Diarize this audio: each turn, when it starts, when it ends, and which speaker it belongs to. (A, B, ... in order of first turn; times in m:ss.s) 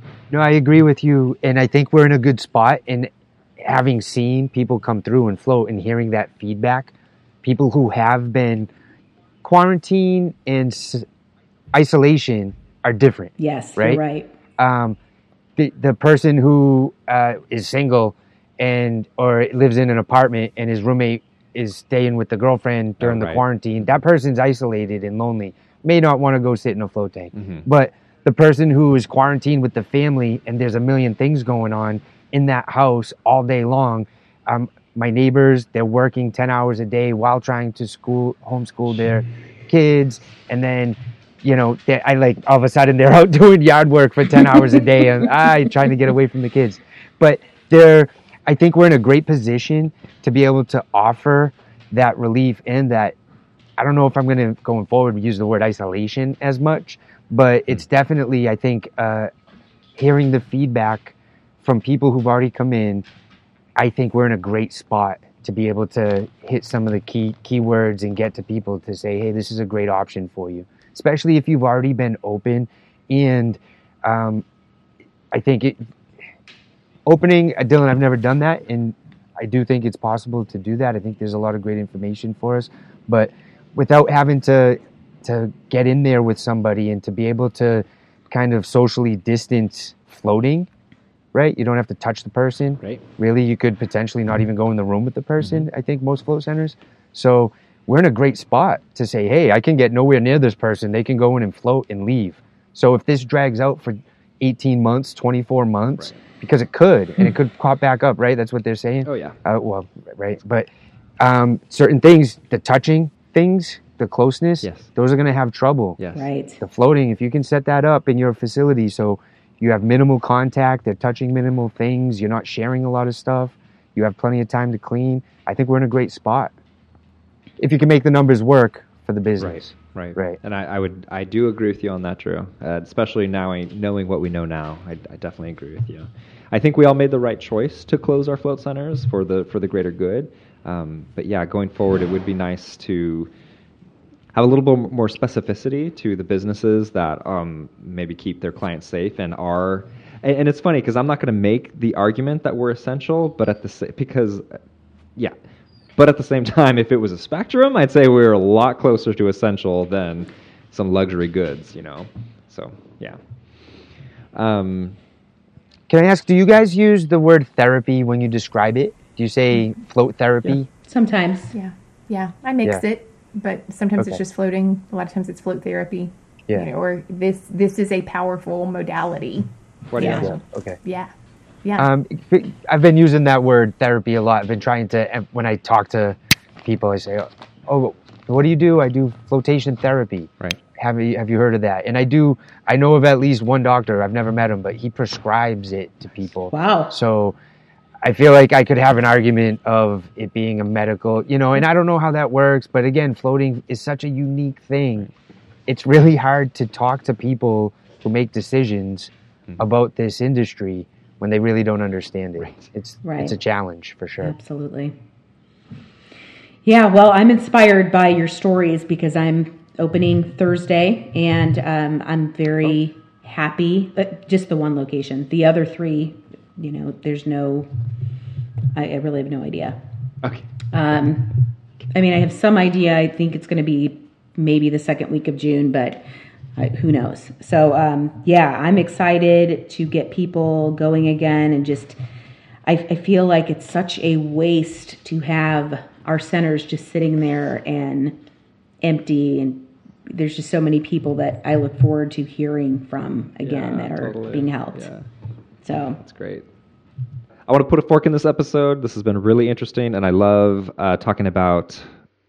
0:00.3-0:03.1 A
0:03.6-0:08.7 A
0:09.4-0:11.0 A
0:11.7-0:14.0 A
0:13.4-0:14.3 B
0:14.6-0:15.0 A
0:15.6-0:53.2 A
0:23.0-0:23.4 C
0:27.3-0:27.6 C
0:53.8-0:59.3 A
1:00.0-1:03.0 A
1:03.8-1:14.4 A
1:15.3-1:15.8 A
1:17.0-1:30.7 A
1:31.3-1:50.7 A
1:49.0-1:49.4 C
1:51.2-1:56.0 A
1:54.6-1:54.9 C
1:56.0-1:56.3 C
1:56.1-1:56.6 B
1:56.6-2:06.5 A
2:07.6-2:10.4 A
2:09.4-2:23.3 C
2:24.3-2:34.6 C
2:36.0-2:43.2 C
2:44.3-2:45.0 C
2:45.9-2:50.7 A
2:50.8-2:51.5 B
2:51.5-2:59.5 D
2:59.9-3:00.4 C
3:00.0-3:00.3 B
3:00.0-3:01.1 D
3:00.1-3:00.8 A
3:01.6-3:01.9 D
3:01.8-3:17.4 A
3:16.5-3:16.9 B
3:18.0-3:25.1 A
3:25.7-3:34.3 A
3:33.0-3:33.3 B
3:34.2-3:34.9 B
3:36.6-3:47.7 B
3:48.7-3:49.8 B
3:50.7-3:56.0 B
3:56.6-4:02.0 B
4:02.6-4:08.2 B
4:08.8-4:14.9 B
4:13.4-4:15.0 C
4:15.6-4:16.0 B
4:16.0-4:16.4 C
4:17.5-4:21.8 C